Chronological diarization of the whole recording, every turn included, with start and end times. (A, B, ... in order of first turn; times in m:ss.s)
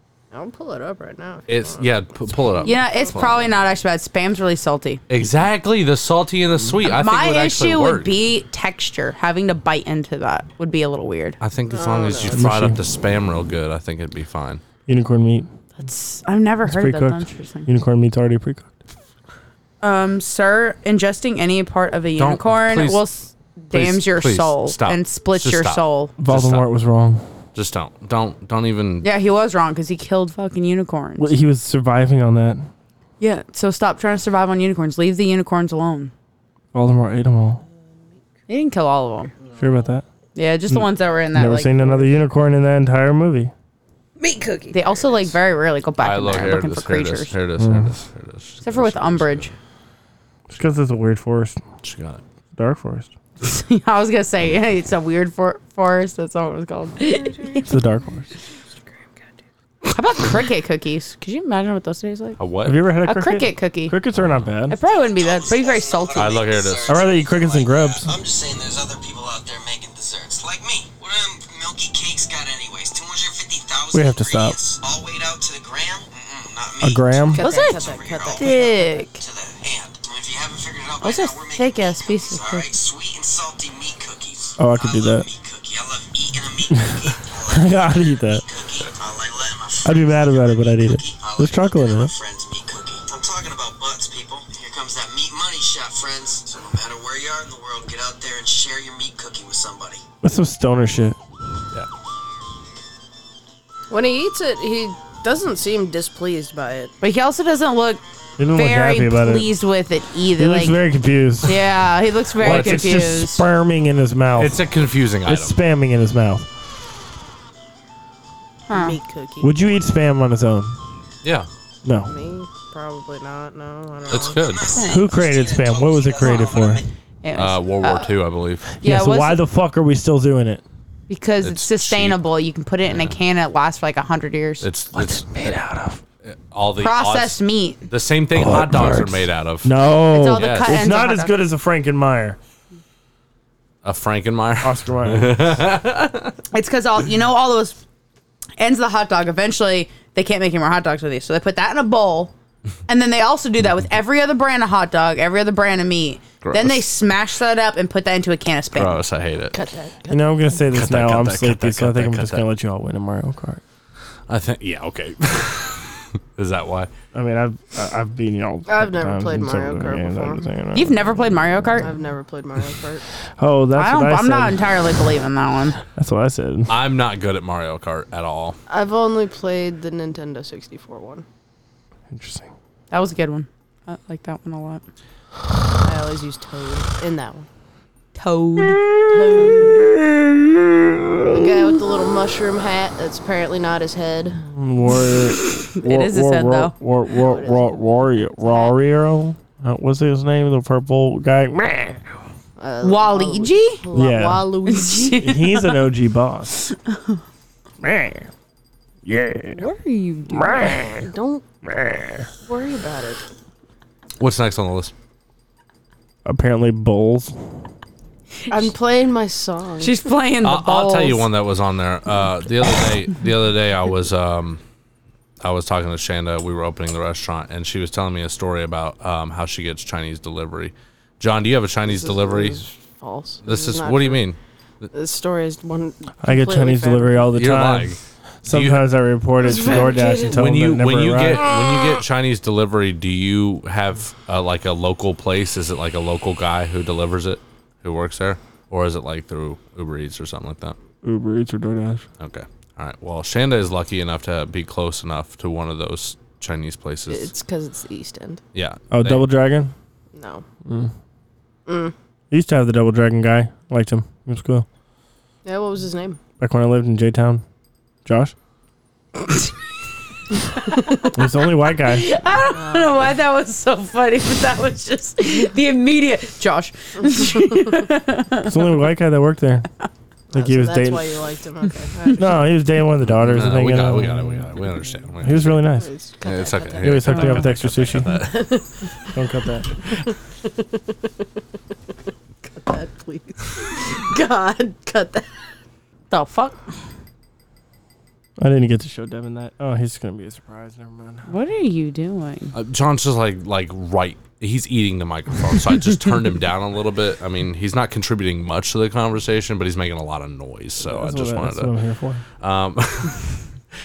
0:00.3-0:03.2 A
0:01.5-0:03.4 B
0:02.6-0:05.0 C
0:05.1-0:08.1 B
0:06.8-0:11.4 C
0:11.4-0:14.6 B
0:11.7-0:12.4 A
0:12.3-0:12.8 D
0:14.9-0:15.5 D
0:15.8-0:17.7 C
0:16.6-0:18.7 D
0:19.8-0:26.1 C
0:22.2-0:23.0 B
0:23.7-0:26.7 B
0:26.2-0:27.2 D
0:27.5-0:29.1 B
0:29.0-0:31.3 C
0:31.2-0:32.7 D
0:33.2-0:36.1 C
0:36.7-0:37.6 D
0:38.5-0:39.3 C
0:39.6-0:40.0 D
0:40.3-0:42.0 C
0:40.7-0:43.5 D
0:44.2-0:45.3 A
0:44.7-0:47.3 C
0:46.0-0:49.5 B
0:47.6-0:47.9 D
0:48.6-0:49.5 C
0:50.5-0:51.6 D
0:51.8-0:52.2 B
0:52.6-0:53.1 D
0:53.4-0:57.6 C
0:57.0-0:57.8 A
0:57.6-0:58.3 D
0:58.4-0:59.2 A
0:59.9-1:02.4 C
1:02.4-1:02.8 B
1:02.6-1:04.8 D
1:03.0-1:04.0 C
1:04.7-1:06.4 C
1:04.8-1:18.5 E
1:06.1-1:06.9 B
1:06.9-1:08.1 D
1:13.9-1:14.6 D
1:16.8-1:17.4 D
1:17.3-1:19.1 A
1:17.4-1:17.8 C
1:18.3-1:19.2 C
1:19.2-1:40.0 E
1:21.0-1:22.7 C
1:24.6-1:25.2 D
1:26.7-1:28.4 D
1:29.8-1:32.1 D
1:40.2-1:41.2 D
1:43.9-1:46.9 A
1:47.0-1:50.8 C
1:48.4-1:49.5 D
1:50.4-1:51.5 D
1:51.4-1:53.4 C
1:52.4-1:54.6 D
1:52.4-1:52.8 B
1:54.4-1:55.6 B
1:55.2-1:56.5 D
1:58.7-1:59.0 C
1:58.7-1:59.5 A
1:59.4-2:00.8 D
2:01.2-2:01.5 B
2:01.8-2:02.1 D
2:02.0-2:04.6 A
2:04.1-2:04.7 B
2:04.1-2:06.9 E
2:04.9-2:06.8 D
2:07.2-2:08.1 C
2:07.3-2:08.7 B
2:08.8-2:10.6 D
2:08.8-2:09.4 C
2:11.1-2:14.7 C
2:11.4-2:12.2 B
2:12.9-2:13.2 B
2:14.6-2:15.6 B
2:14.9-2:16.0 D
2:16.2-2:19.7 B
2:16.8-2:17.8 C
2:18.3-2:22.4 D
2:20.1-2:21.3 C
2:20.3-2:20.7 B
2:23.8-2:26.3 B
2:24.6-2:25.6 D
2:26.5-2:27.8 C
2:28.6-2:32.3 C
2:32.9-2:39.0 C
2:36.4-2:36.8 B
2:38.7-2:39.6 B
2:39.5-2:40.4 A
2:40.1-2:43.6 D
2:40.7-2:42.4 B
2:44.3-2:46.9 B
2:47.1-2:51.7 D
2:48.7-2:50.4 A
2:50.7-2:51.9 C
2:51.8-2:53.0 A
2:53.4-2:54.7 D
2:53.8-2:55.8 C
2:55.9-2:56.7 D
2:56.7-2:58.6 B
2:58.7-3:01.2 A
3:02.1-3:02.5 D
3:02.9-3:04.8 C
3:05.8-3:07.5 A
3:08.1-3:08.8 C
3:08.8-3:11.8 D
3:09.1-3:09.9 A
3:11.3-3:14.4 A
3:14.4-3:22.0 D
3:15.6-3:16.7 C
3:17.1-3:18.1 A
3:22.6-3:25.2 A
3:22.8-3:23.8 C
3:23.9-3:24.4 D
3:24.7-3:25.8 C
3:25.2-3:26.7 D
3:27.8-3:28.3 D
3:29.0-3:29.6 D
3:29.6-3:30.8 C
3:30.3-3:31.1 D
3:30.8-3:31.4 A
3:31.7-3:32.2 D
3:32.4-3:33.2 A
3:34.2-3:34.9 B
3:36.2-3:37.4 D
3:38.5-3:40.0 A
3:39.8-3:41.3 C
3:40.4-3:44.6 B
3:45.4-3:52.6 B
3:51.8-3:54.2 A
3:53.4-3:54.9 B
3:54.9-3:57.3 A
3:56.2-4:01.5 D
3:57.3-3:58.9 B
3:59.4-4:00.4 A
4:00.1-4:10.8 B
4:11.0-4:12.0 D
4:12.2-4:17.3 B
4:17.1-4:18.4 A
4:18.5-4:19.3 B
4:18.9-4:19.7 D
4:20.1-4:20.4 A
4:20.6-4:20.9 D
4:21.6-4:21.9 A
4:22.3-4:24.6 D
4:25.4-4:26.2 A
4:26.4-4:27.4 D
4:28.0-4:28.3 D
4:31.1-4:32.1 D
4:31.8-4:38.5 C
4:32.5-4:33.1 A
4:37.1-4:37.7 A
4:38.4-4:39.7 D
4:40.3-4:42.5 A
4:40.3-4:41.2 D
4:42.2-4:45.9 D
4:43.2-4:45.6 B
4:45.5-4:47.4 A
4:46.2-4:48.5 B
4:46.8-4:48.1 D
4:48.0-4:49.2 A
4:49.1-4:49.7 D
4:49.8-4:51.2 A
4:52.4-4:55.3 A
4:56.1-4:56.6 C
4:58.4-5:01.3 D
5:01.3-5:02.5 C
5:02.5-5:11.7 B
5:10.8-5:12.2 D
5:12.4-5:13.4 B